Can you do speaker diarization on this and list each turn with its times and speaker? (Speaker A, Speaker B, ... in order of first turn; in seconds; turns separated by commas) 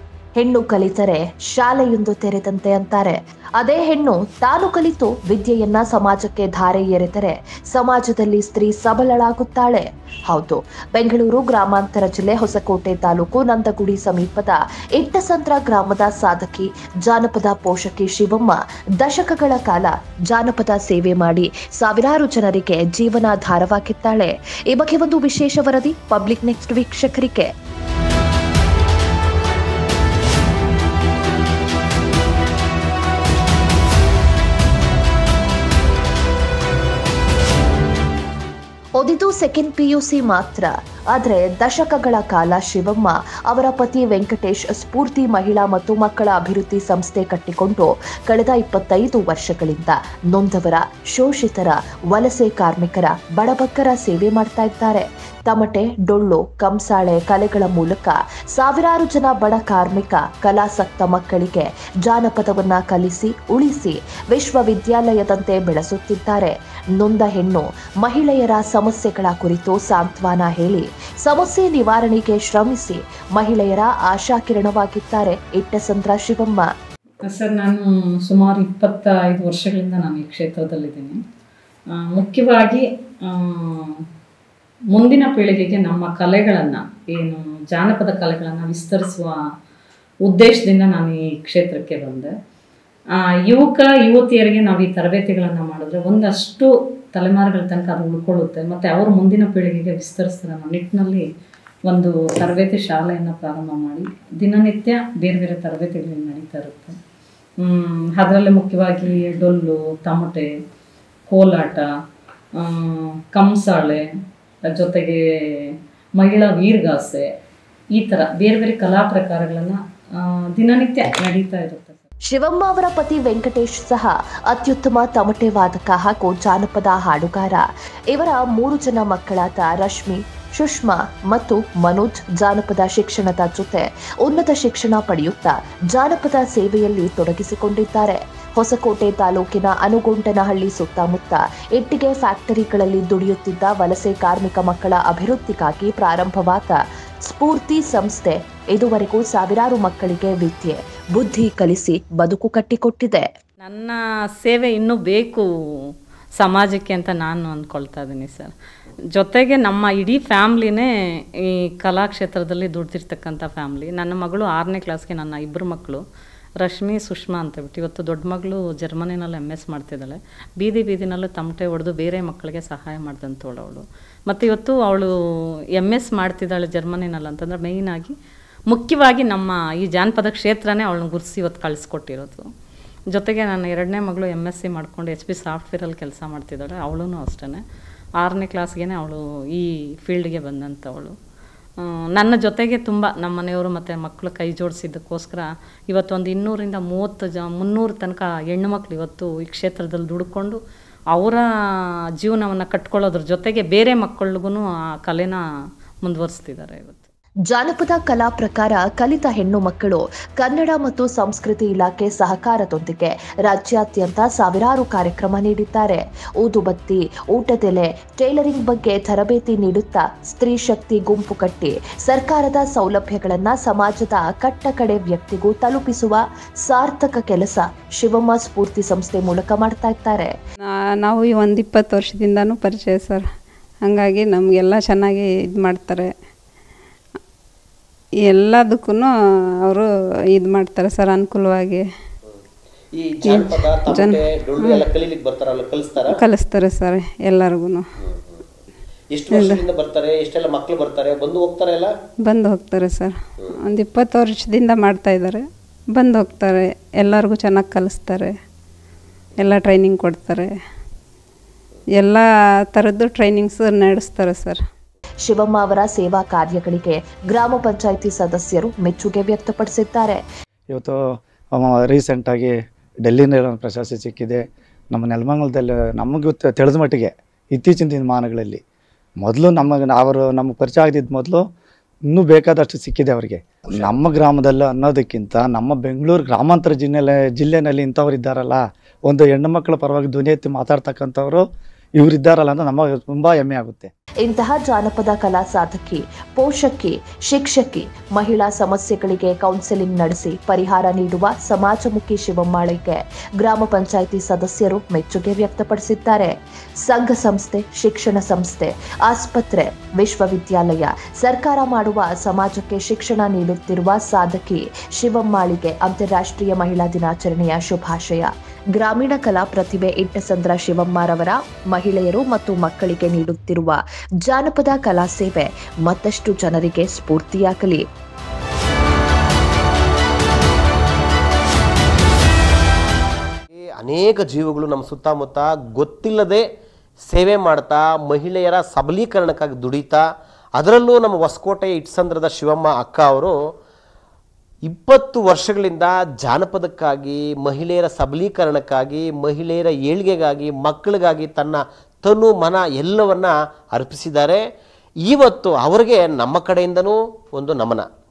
Speaker A: 0.4-27.5, Speaker A: 39.0-76.7, Speaker B: 77.2-81.2, Speaker B: 81.9-84.0, Speaker B: 84.9-89.3, Speaker B: 90.2-92.3, Speaker B: 93.2-101.2, Speaker B: 101.8-106.9, Speaker B: 107.6-110.5, Speaker B: 111.3-111.9, Speaker B: 112.6-114.0, Speaker B: 114.7-117.3, Speaker B: 117.9-122.0, Speaker A: 122.3-153.2, Speaker B: 153.6-155.9, Speaker B: 156.4-158.5, Speaker B: 159.2-160.9, Speaker B: 161.4-166.0, Speaker B: 166.6-175.1, Speaker B: 175.8-178.1, Speaker B: 178.7-182.4, Speaker B: 183.1-187.6, Speaker B: 188.2-191.1, Speaker B: 191.8-200.6, Speaker B: 201.1-201.4, Speaker B: 202.2-205.4, Speaker B: 206.0-207.0, Speaker A: 207.5-230.3, Speaker C: 231.0-233.2, Speaker C: 233.8-236.1, Speaker C: 238.3-239.1, Speaker C: 239.7-241.8, Speaker D: 242.9-246.2, Speaker C: 243.2-244.9, Speaker C: 246.1-247.8, Speaker D: 249.1-251.9, Speaker C: 249.3-249.6, Speaker C: 252.2-255.4, Speaker C: 255.9-258.3, Speaker C: 259.4-260.5, Speaker C: 262.0-264.6, Speaker A: 265.2-270.2, Speaker E: 270.7-271.0, Speaker E: 271.5-278.6, Speaker E: 279.2-281.4, Speaker E: 282.1-291.4, Speaker E: 292.0-293.9, Speaker A: 294.2-327.8, Speaker D: 333.5-336.4, Speaker D: 337.1-340.0, Speaker D: 340.6-343.3, Speaker D: 344.6-354.4, Speaker D: 355.0-357.9